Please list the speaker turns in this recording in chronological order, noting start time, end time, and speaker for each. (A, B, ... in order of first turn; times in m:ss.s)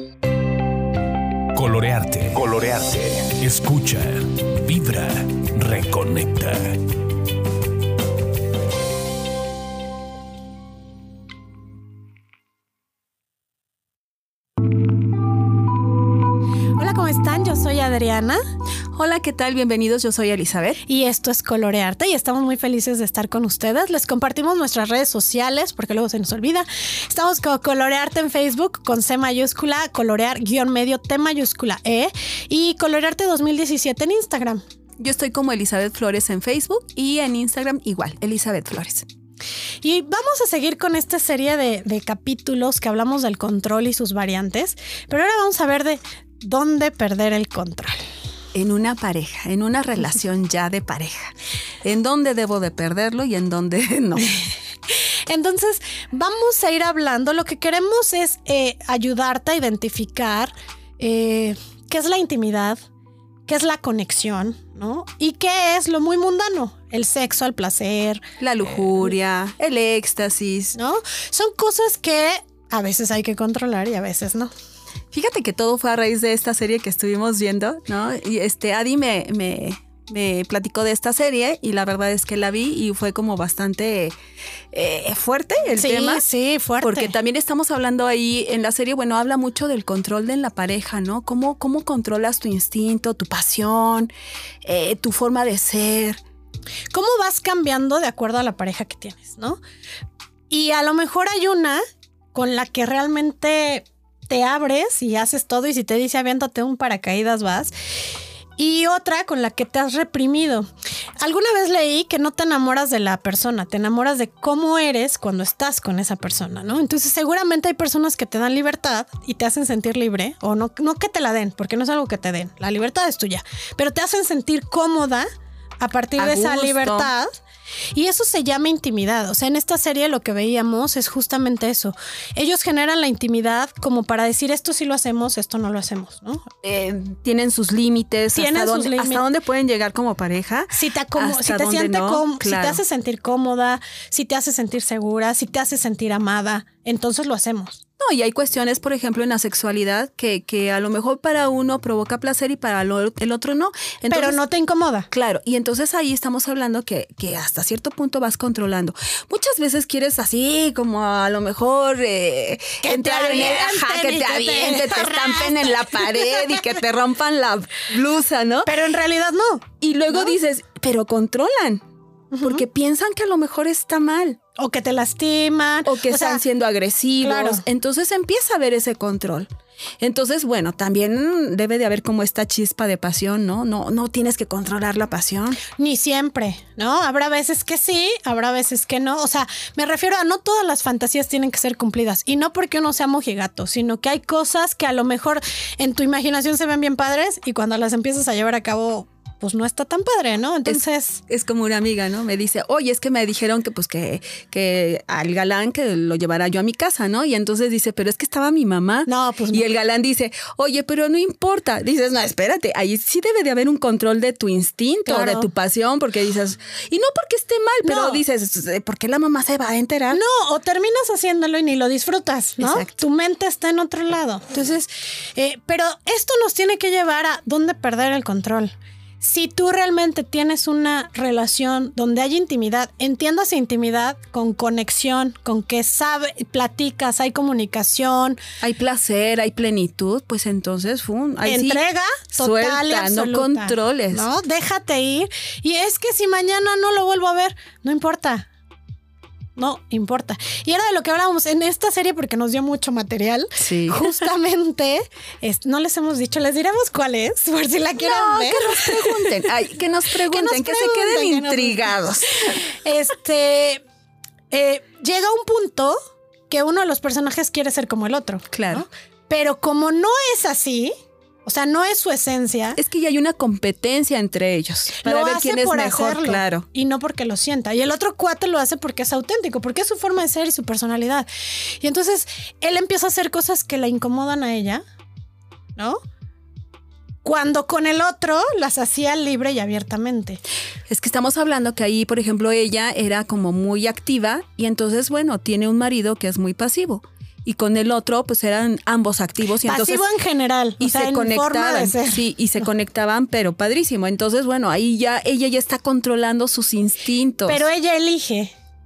0:01.5-0:06.8 A
0:16.8-0:18.4 B
0:18.9-0:20.8 C
0:20.8-0:34.6 B
0:35.0-0:39.0 C
0:39.8-0:48.0 B
0:48.5-0:51.3 C
0:51.8-0:54.3 C
0:54.3-1:02.8 B
1:03.5-1:08.2 B
1:08.4-1:10.8 C
1:10.7-1:14.5 B
1:15.1-1:24.1 C
1:24.7-1:26.2 C
1:25.8-1:27.1 B
1:26.8-1:34.1 C
1:34.6-1:36.2 C
1:36.9-1:39.6 B
1:40.5-1:41.8 B
1:42.3-1:47.7 B
1:48.6-1:50.7 B
1:51.2-2:05.3 B
2:05.8-2:07.3 B
2:06.2-2:07.1 C
2:07.9-2:16.4 B
2:16.6-2:22.8 C
2:18.3-2:19.3 B
2:20.7-2:27.8 B
2:28.0-2:34.4 C
2:34.1-2:35.1 B
2:35.1-2:48.7 C
2:42.8-2:46.6 B
2:48.6-2:50.4 B
2:49.8-2:51.8 C
2:52.3-2:52.6 B
2:52.4-2:54.4 C
2:54.6-2:56.4 B
2:55.8-2:59.5 C
2:57.2-2:57.6 B
3:00.0-3:05.6 C
3:05.8-3:21.2 B
3:20.6-3:40.2 C
3:29.0-3:29.7 B
3:35.0-3:35.5 B
3:37.8-3:38.2 B
3:40.1-3:58.4 B
3:42.6-3:43.0 C
3:58.6-4:01.8 C
4:01.4-4:08.5 B
4:02.3-4:04.3 C
4:09.6-4:19.5 B
4:13.6-4:14.1 C
4:18.0-4:22.4 C
4:20.2-4:23.8 B
4:24.5-4:26.0 B
4:26.5-4:30.9 B
4:28.5-4:28.8 C
4:31.4-4:32.8 B
4:32.8-4:36.6 C
4:35.0-4:41.3 B
4:41.8-4:44.8 B
4:47.2-4:50.4 B
4:50.9-5:00.0 C
4:59.6-5:02.6 B
5:00.8-5:07.6 C
5:07.4-5:08.5 B